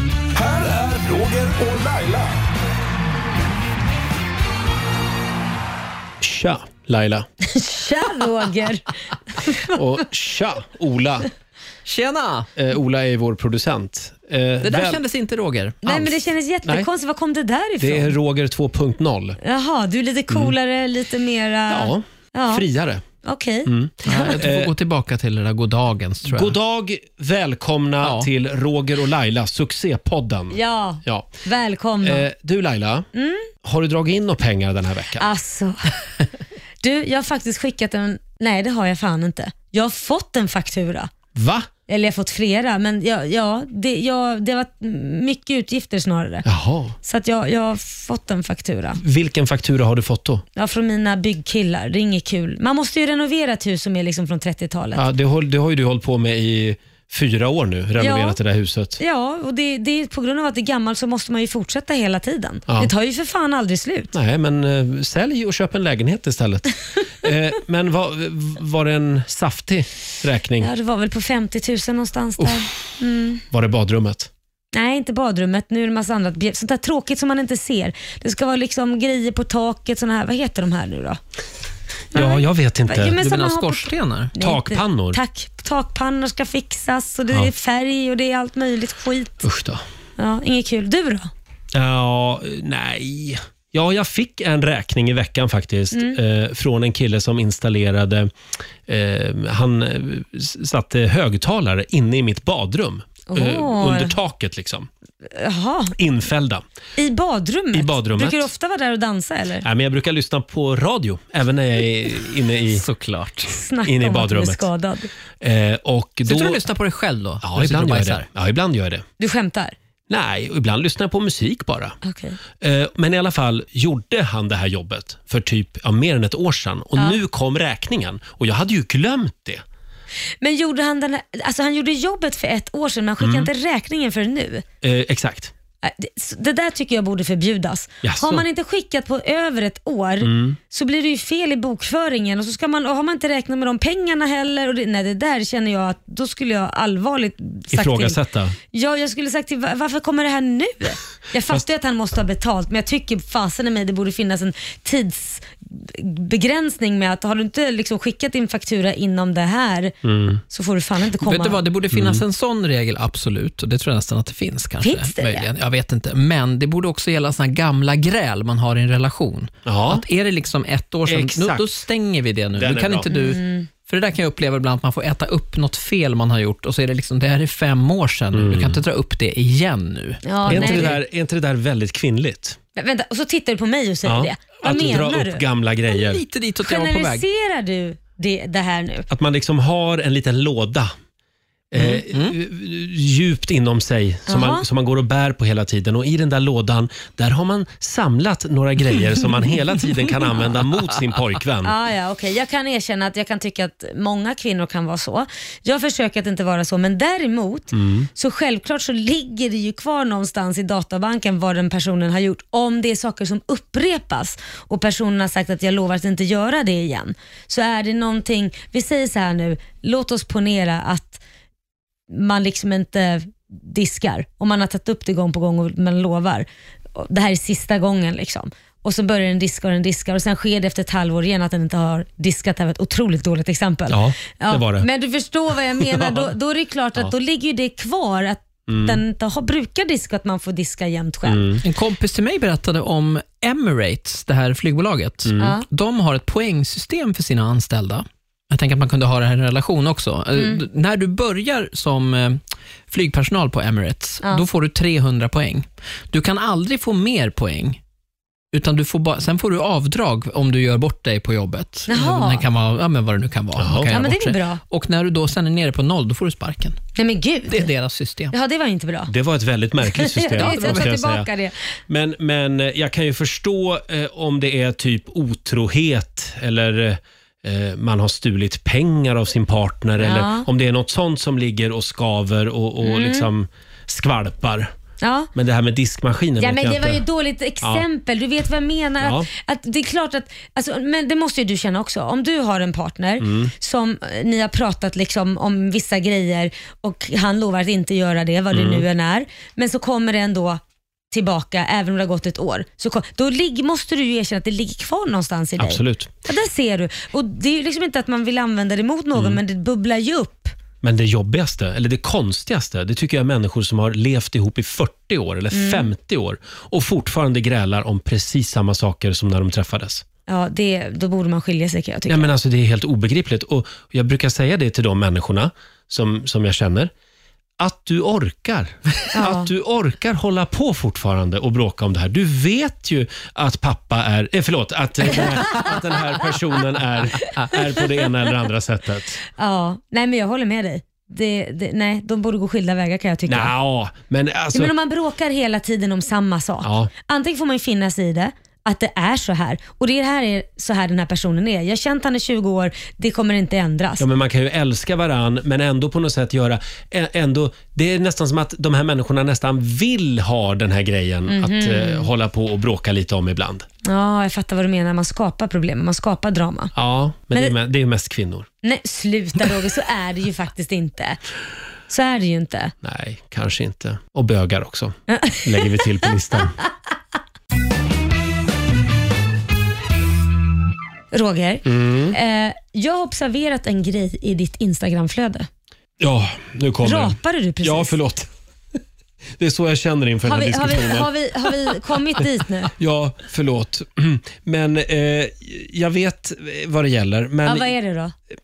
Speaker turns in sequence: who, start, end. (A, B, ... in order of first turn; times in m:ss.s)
0:00.4-0:02.4 A
0:06.2-0:07.3 B
0:07.4-0:09.7 C
0:09.6-0:11.3 B
0:11.8-0:12.5 D
0:12.5-0:15.0 B
0:14.6-0:15.8 D
0:15.8-0:18.1 C
0:15.8-0:16.9 B
0:17.8-0:19.4 B
0:19.4-0:22.6 C
0:20.3-0:20.5 B
0:21.7-0:23.0 B
0:23.2-0:24.4 C
0:23.6-0:24.7 B
0:24.0-0:26.5 D
0:26.2-0:31.3 B
0:30.5-0:32.2 C
0:32.0-0:33.1 B
0:33.1-0:33.5 C
0:33.6-0:35.2 B
0:35.2-0:35.9 C
0:36.8-0:41.1 C
0:41.3-0:41.7 B
0:41.9-0:46.4 C
0:46.4-0:46.9 B
0:47.0-0:49.0 C
0:49.0-0:50.4 B
0:50.5-0:55.0 C
0:54.9-0:59.0 B
0:58.0-0:58.4 C
0:59.0-1:04.1 C
1:04.1-1:10.7 B
1:10.6-1:13.4 C
1:12.4-1:12.6 B
1:13.5-1:14.3 B
1:14.7-1:21.2 C
1:22.1-1:29.5 C
1:22.1-1:23.2 B
1:23.2-1:24.3 D
1:24.4-1:25.2 B
1:29.4-1:29.8 B
1:30.2-1:31.3 C
1:31.7-1:38.3 B
1:35.9-1:36.2 C
1:38.8-1:44.9 B
1:43.3-1:44.2 C
1:45.2-1:46.0 C
1:46.0-1:46.6 B
1:47.0-1:49.6 C
1:47.7-1:48.5 B
1:49.6-1:52.8 B
1:52.7-1:53.5 D
1:53.5-1:55.1 C
1:53.8-1:54.7 B
1:55.4-1:56.6 B
1:56.3-1:58.2 D
1:57.4-1:59.0 B
1:59.2-1:59.7 C
2:00.1-2:02.0 B
2:02.0-2:02.4 C
2:02.6-2:09.6 B
2:10.4-2:14.6 C
2:13.2-2:13.5 B
2:14.8-2:15.5 B
2:15.8-2:28.2 C
2:18.0-2:18.4 B
2:20.2-2:20.6 B
2:27.7-2:28.5 B
2:28.7-2:39.9 C
2:40.0-2:40.4 B
2:40.5-2:41.6 C
2:41.2-3:01.0 D
2:41.9-2:42.2 B
2:44.8-2:45.5 C
2:49.6-2:50.0 B
2:51.0-2:51.6 B
2:52.5-2:53.1 B
2:53.1-2:53.7 C
2:58.3-2:58.8 B
3:00.2-3:00.9 C
3:00.4-3:02.6 B
3:02.8-3:05.4 C
3:04.0-3:06.2 B
3:05.9-3:07.2 D
3:06.6-3:09.1 C
3:09.1-3:10.9 B
3:11.7-3:21.7 B
3:11.8-3:12.4 D
3:14.3-3:14.6 C
3:21.6-3:41.2 C
3:27.7-3:28.1 B
3:42.1-4:01.6 C
3:53.9-3:54.9 B
3:55.8-3:56.3 B
3:58.7-3:59.0 B
4:01.2-4:01.6 B
4:01.6-4:17.8 D
4:05.2-4:05.6 B
4:05.4-4:05.6 C
4:10.4-4:10.6 C
4:18.5-4:26.8 D
4:21.9-4:22.4 C
4:23.6-4:23.9 B
4:23.9-4:24.6 C
4:27.0-4:27.7 C
4:27.5-4:28.3 D
4:28.3-4:29.1 C
4:29.1-4:31.3 B
4:30.0-4:31.5 C
4:30.4-4:30.9 D
4:31.9-4:44.7 B
4:40.0-4:40.4 C
4:42.8-4:43.3 C
4:45.0-4:45.3 C
4:45.3-4:47.0 B
4:46.4-5:10.5 C
4:49.0-4:49.3 B
4:53.2-4:53.5 B
4:58.5-4:58.8 B
5:05.6-5:06.1 B
5:09.1-5:09.4 B
5:10.8-5:20.0 B
5:15.5-5:15.9 C
5:20.3-5:22.3 C
5:22.1-5:26.9 B
5:27.6-5:39.2 B
5:29.1-5:29.5 C
5:39.3-5:43.5 C
5:43.3-5:44.7 B
5:44.5-5:54.0 C
5:46.6-5:46.9 B
5:54.0-6:03.6 B
6:01.3-6:02.1 C
6:03.8-6:06.7 C
6:06.7-6:08.5 B
6:08.6-6:11.2 C
6:11.9-6:12.7 C
6:12.8-6:16.6 B
6:15.1-6:15.8 C
6:21.1-6:25.5 C
6:21.6-6:22.2 B
6:26.0-6:28.3 B
6:26.8-6:28.0 C
6:29.4-6:37.7 B
6:30.2-6:32.7 C
6:37.4-6:38.1 C